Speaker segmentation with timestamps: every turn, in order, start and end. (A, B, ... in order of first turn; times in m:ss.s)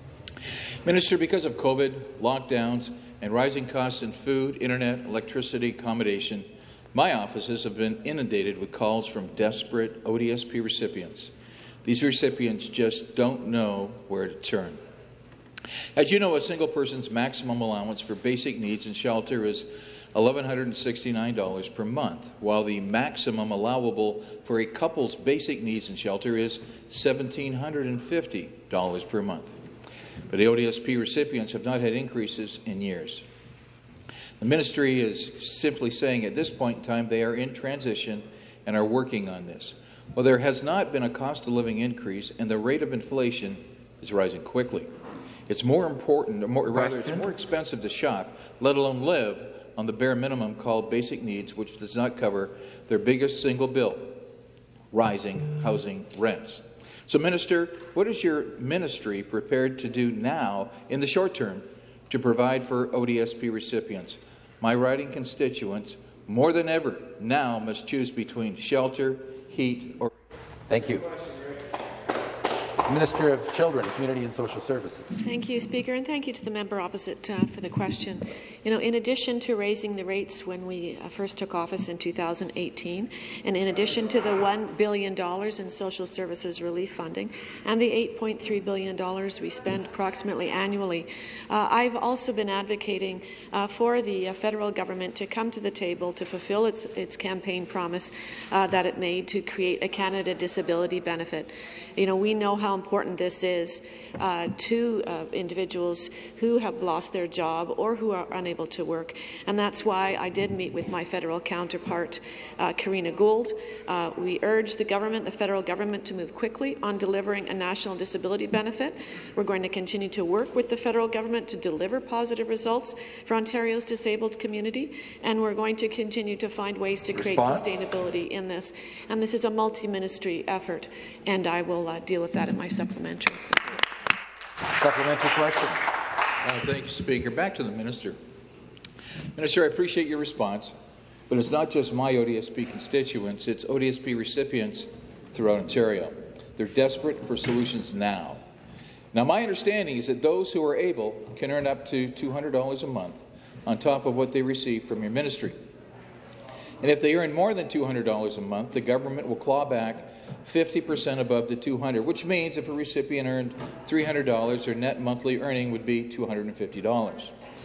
0:00.8-0:11.3 A
0:11.8-0:14.8 A
0:15.9-0:29.5 A
0:30.3-0:33.2 A
0:34.4-0:44.9 A
0:45.5-0:54.2 A
0:46.8-0:47.2 B
0:54.9-1:10.1 A
1:10.7-1:11.1 B
1:12.8-1:15.1 B
1:15.2-2:13.7 C
2:07.2-2:07.7 B
2:14.8-2:15.8 B
2:16.4-2:18.2 A
2:19.4-2:20.7 A
2:21.3-2:28.4 A
2:29.1-2:35.6 A
2:36.8-2:47.3 A